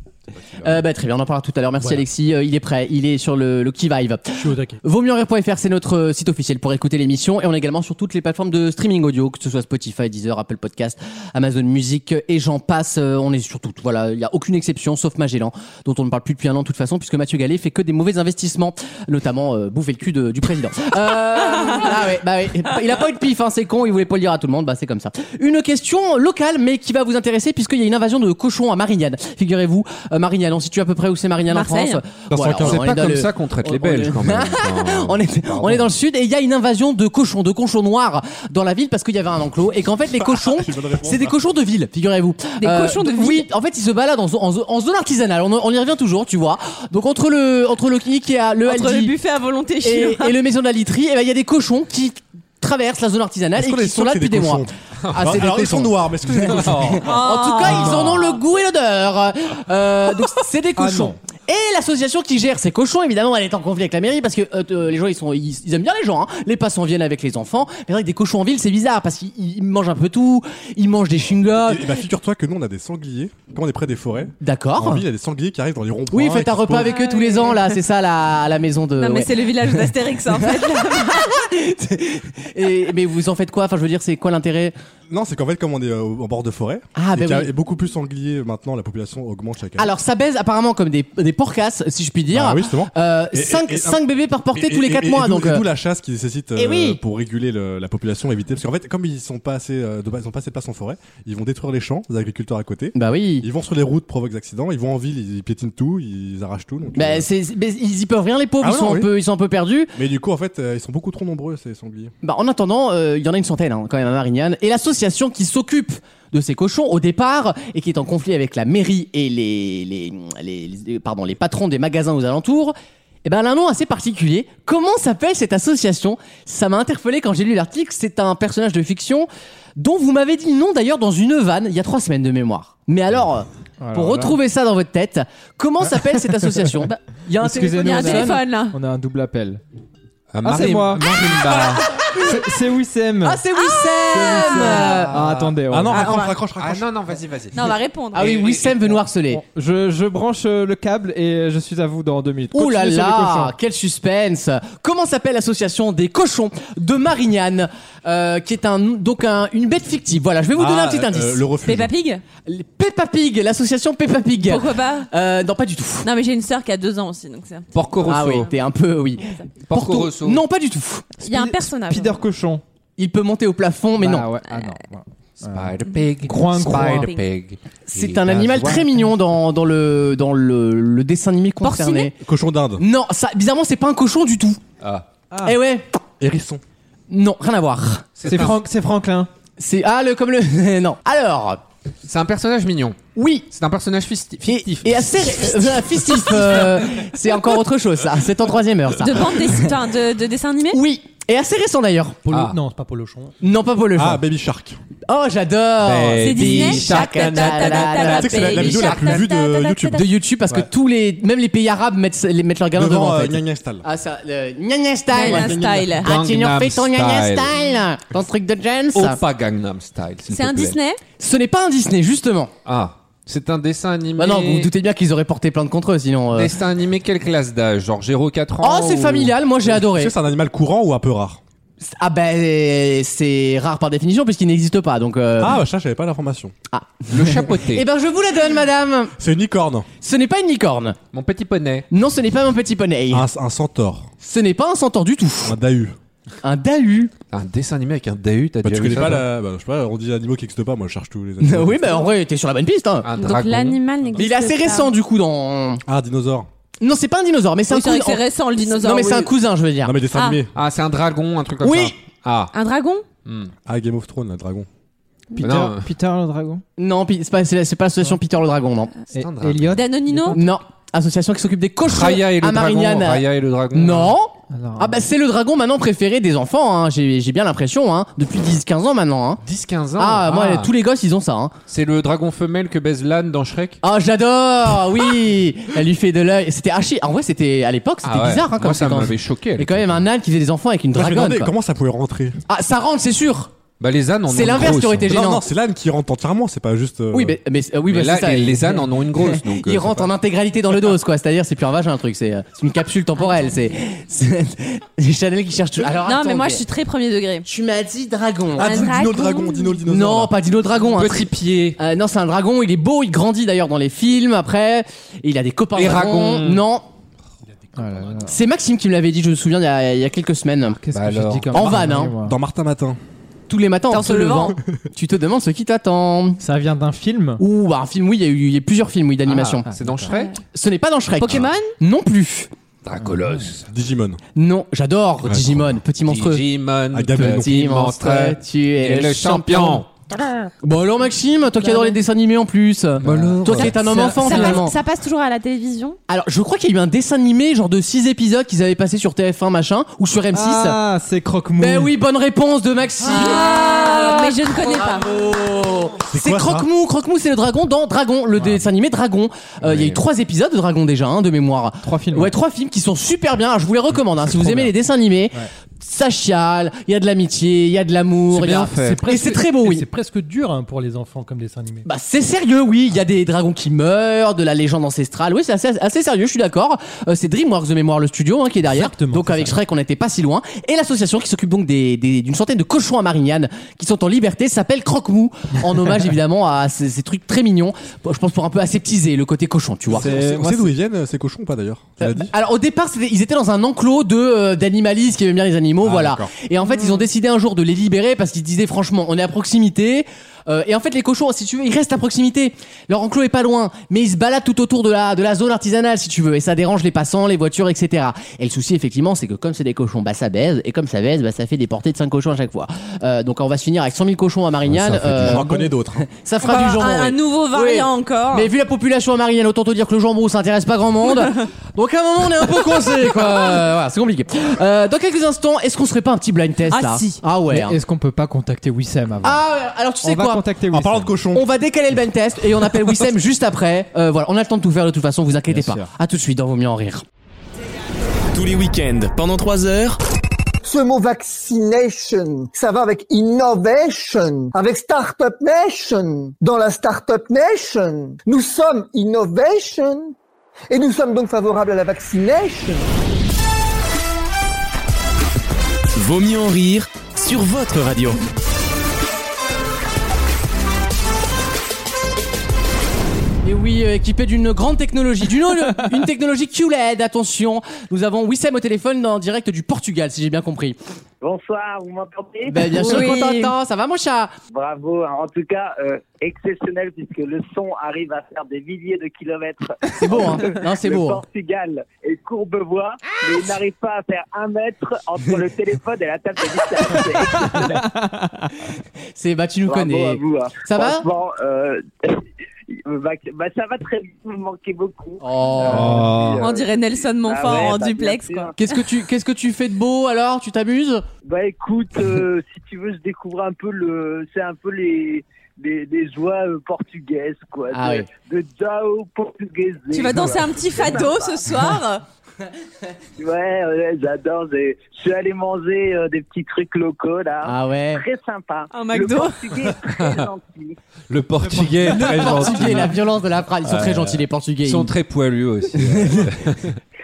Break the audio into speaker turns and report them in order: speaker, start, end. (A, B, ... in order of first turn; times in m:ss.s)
0:00.6-0:49.1 A
0:04.4-0:04.8 B
0:31.5-0:32.0 C
0:32.3-0:32.9 D
0:32.6-0:35.9 E
0:40.2-0:41.4 D
0:42.6-0:43.5 C
0:48.6-0:50.4 C
0:49.8-1:12.0 A
0:53.6-0:57.1 D
0:55.0-0:55.6 E
0:56.4-0:57.1 E
0:57.0-0:58.3 C
0:57.7-0:58.2 F
1:00.8-1:01.1 F
1:11.3-1:17.0 D
1:14.4-1:15.0 A
1:16.1-1:24.7 A
1:16.8-1:17.7 C
1:19.0-1:21.3 C
1:25.1-1:29.9 D
1:27.0-1:27.5 A
1:29.8-1:35.6 A
1:32.3-1:34.0 D
1:34.6-1:47.3 D
1:36.6-1:37.0 A
1:43.0-1:43.5 A
1:47.0-1:49.9 A
1:48.6-1:49.1 D
1:50.0-1:52.1 D
1:52.2-2:18.4 A
2:13.8-2:14.4 F
2:17.4-2:19.6 F
2:17.7-2:18.8 C
2:20.3-2:21.9 E
2:20.4-2:21.0 F
2:22.2-2:23.4 F
2:23.2-2:25.1 A
2:23.6-2:25.0 C
2:24.8-2:25.6 E
2:25.1-2:26.0 F
2:25.7-2:26.9 D
2:25.9-2:26.4 C
2:26.6-2:27.6 E
2:27.5-2:28.5 C
2:28.1-2:28.9 E
2:28.1-2:29.4 A
2:29.3-2:33.5 F
2:32.5-2:41.6 A
2:40.5-2:41.9 D
2:41.6-2:42.2 C
2:42.4-2:46.1 A
2:44.4-2:45.1 C
2:46.0-2:47.7 C
2:47.7-2:48.5 E
2:48.0-2:51.1 A
2:49.7-2:50.4 E
2:51.2-2:52.2 C
2:51.2-2:52.6 F
2:53.0-2:54.3 A
2:54.0-2:57.1 F
2:55.5-2:58.8 E
2:56.7-2:57.2 C
2:57.9-3:02.1 A
2:58.6-2:59.0 F
3:01.6-3:02.1 C
3:02.2-3:02.8 D
3:02.8-3:04.6 A
3:04.8-3:05.1 E
3:05.3-3:05.6 F
3:05.4-3:05.9 A
3:06.2-3:06.6 D
3:07.1-3:08.1 A
3:08.2-3:08.6 E
3:08.3-3:09.3 F
3:09.6-3:11.6 A
3:12.0-3:13.0 E
3:13.2-3:13.5 A
3:13.5-3:16.4 E
3:14.4-3:19.7 A
3:19.0-3:20.8 C
3:20.7-3:22.3 A
3:22.3-3:23.3 B
3:22.3-3:22.6 E
3:23.4-3:24.2 A
3:24.0-3:24.8 D
3:25.1-3:29.0 A
3:25.8-3:29.1 E
3:26.2-3:30.1 C
3:28.1-3:30.7 D
3:30.0-3:39.2 A
3:32.7-3:33.8 D
3:35.1-3:36.1 C
3:35.1-3:36.0 D
3:36.0-3:37.5 E
3:38.9-3:40.8 E
3:40.3-3:41.0 C
3:41.2-3:42.5 A
3:42.6-3:44.7 E
3:44.2-3:46.5 A
3:46.3-3:49.4 E
3:48.6-3:50.1 A
3:49.6-3:51.4 D
3:51.8-3:55.6 A
3:55.4-3:56.5 D
3:56.7-3:59.1 A
3:57.1-3:57.8 E
3:59.2-3:59.9 D
4:00.0-4:01.0 A
4:01.1-4:01.9 E
4:01.9-4:03.3 A
4:03.1-4:04.1 D
4:04.2-4:05.6 A
4:05.4-4:06.0 D
4:06.4-4:07.1 A
4:07.3-4:09.3 E
4:08.6-4:12.1 D
4:11.4-4:13.1 A
4:13.0-4:14.2 E
4:13.2-4:14.9 C
4:14.2-4:15.8 A
4:15.9-4:16.5 D
4:16.8-4:20.0 A
4:17.7-4:19.4 C
4:19.8-4:20.5 D
4:20.1-4:20.4 C
4:20.5-4:22.5 E
4:21.6-4:21.9 A
4:22.5-4:23.0 C
4:23.2-4:23.5 E
4:23.7-4:24.7 D
4:25.4-4:26.6 F
4:25.4-4:25.9 E
4:26.8-4:28.9 A
4:29.1-4:30.4 F
4:29.1-4:29.8 E
4:29.7-4:30.5 C
4:30.4-4:39.4 A
4:31.9-4:34.2 E
4:34.5-4:35.0 F
4:39.4-4:40.7 E
4:40.0-4:41.6 A
4:41.7-4:43.8 E
4:43.8-4:51.5 A
4:48.0-4:50.1 E
4:50.9-4:52.4 D
4:52.5-4:53.5 A
4:53.8-4:55.2 E
4:54.3-4:55.4 A
4:55.0-4:57.4 D
4:57.1-5:06.6 A
4:57.9-5:00.1 E
5:03.2-5:03.5 C
5:06.0-5:07.4 C
5:07.4-5:08.9 A
5:08.5-5:10.4 D
5:08.6-5:09.8 C
5:09.8-5:16.9 A
5:11.0-5:11.8 E
5:15.7-5:16.6 E
5:17.8-5:18.4 F
5:18.2-5:20.8 A
5:20.7-5:22.4 F
5:20.9-5:21.7 E
5:21.5-5:22.1 A
5:21.7-5:23.0 D
5:23.5-5:26.4 A
5:23.9-5:24.6 C
5:26.4-5:27.4 F
5:27.4-5:29.7 A
5:29.2-5:30.4 E
5:29.7-5:30.1 F
5:30.1-5:30.4 C
5:30.5-5:32.5 A
5:31.2-5:31.8 C
5:32.8-5:33.7 E
5:33.0-5:33.5 F
5:33.7-5:34.2 D
5:34.4-5:36.4 A
5:35.2-5:35.8 D
5:36.0-5:39.9 E
5:36.9-5:37.5 D
5:37.2-5:39.8 A
5:40.6-5:44.8 A
5:41.6-5:42.0 C
5:43.0-5:43.8 E
5:43.0-5:44.6 F
5:43.8-5:46.0 C
5:46.1-5:50.8 A
5:50.3-5:51.9 F
5:51.6-6:09.9 A
5:53.0-5:55.2 C
5:56.1-5:56.7 D
5:59.6-6:00.0 E
6:01.8-6:02.3 F
6:04.4-6:04.7 F
6:08.3-6:09.3 E
6:09.1-6:11.9 B
6:11.8-6:30.1 A
6:18.7-6:19.5 B
6:29.9-6:32.3 D
6:29.9-6:30.7 F
6:32.0-7:07.8 A
6:35.8-6:36.3 D
6:36.7-6:37.1 C
6:54.7-6:56.1 D
6:56.4-6:58.5 C
7:06.7-7:07.2 C
7:07.5-7:09.4 F
7:09.2-7:10.4 A
7:10.0-7:11.1 F
7:10.7-7:11.4 D
7:11.3-7:17.0 A
7:15.5-7:15.9 F
7:18.3-7:20.0 G
7:20.6-7:30.2 H
7:30.7-7:32.9 H
7:36.0-7:38.2 G
7:43.4-7:50.8 A
7:51.2-7:52.7 I
7:52.5-7:54.4 A
7:52.7-7:53.5 C
7:54.5-8:08.0 I
8:00.0-8:01.2 A
8:09.2-8:11.0 A
8:09.7-8:18.5 I
8:15.2-8:16.1 A
8:15.7-8:16.4 D
8:15.8-8:16.2 E
8:16.4-8:18.5 C
8:18.6-8:21.1 A
8:21.2-8:31.7 I
8:27.7-8:28.1 A
8:29.9-8:32.0 C
8:33.2-8:40.8 I
8:37.4-8:38.0 A
8:38.7-8:39.5 C
8:40.0-8:40.3 E
8:41.1-8:43.0 E
8:41.5-8:42.5 B
8:41.8-8:44.9 A
8:43.6-8:46.8 E
8:46.0-8:46.3 A